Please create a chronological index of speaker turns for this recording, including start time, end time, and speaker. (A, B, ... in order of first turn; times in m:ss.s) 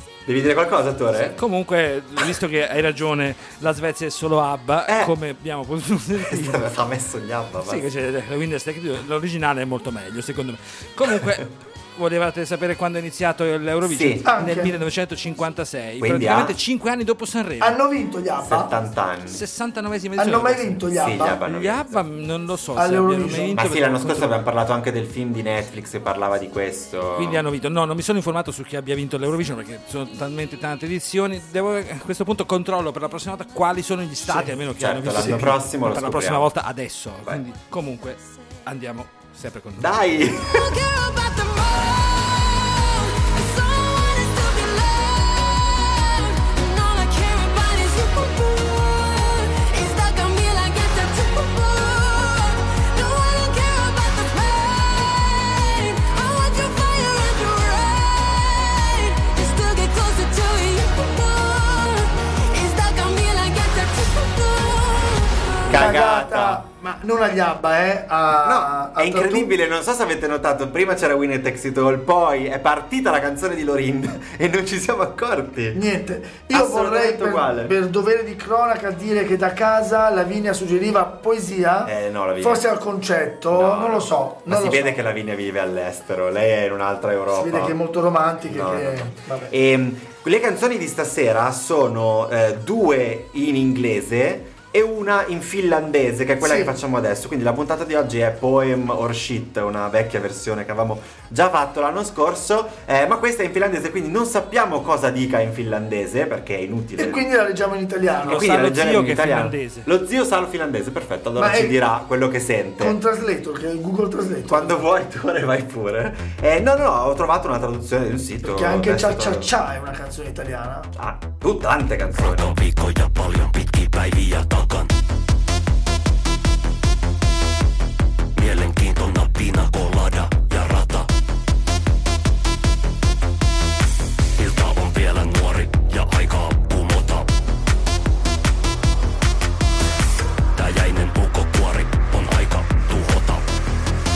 0:00.3-0:01.4 A
0:01.4-0:06.7 B
0:04.9-0:05.1 A
0:06.3-0:07.8 A
0:07.6-0:17.8 B
0:13.8-0:14.2 A
0:14.2-0:14.8 C
0:16.0-0:16.6 A
0:17.6-0:18.7 C
0:18.4-0:19.4 A
0:19.3-0:24.4 B
0:20.2-0:21.4 C
0:21.0-0:22.1 A
0:22.8-0:23.6 C
0:23.6-0:27.4 A
0:27.1-0:40.2 B
0:34.2-0:34.5 C
0:34.8-0:36.5 A
0:35.2-0:35.4 C
0:39.8-0:40.7 A
0:40.5-1:05.6 D
1:05.7-1:06.6 A
1:05.7-1:09.5 C
1:08.4-1:15.8 A
1:15.7-1:25.0 C
1:16.5-1:17.7 A
1:21.8-1:22.7 A
1:23.5-1:27.8 A
1:27.3-1:29.5 C
1:28.5-1:47.2 A
1:36.4-1:36.8 C
1:47.0-1:48.5 C
1:48.2-1:49.9 B
1:48.2-1:53.0 A
1:51.4-1:51.8 C
1:52.8-1:54.8 C
1:54.5-1:59.5 A
1:58.4-2:00.9 C
2:01.0-2:02.6 A
2:02.2-2:04.9 E
2:08.4-2:11.1 E
2:14.4-2:17.3 E
2:20.6-2:23.4 E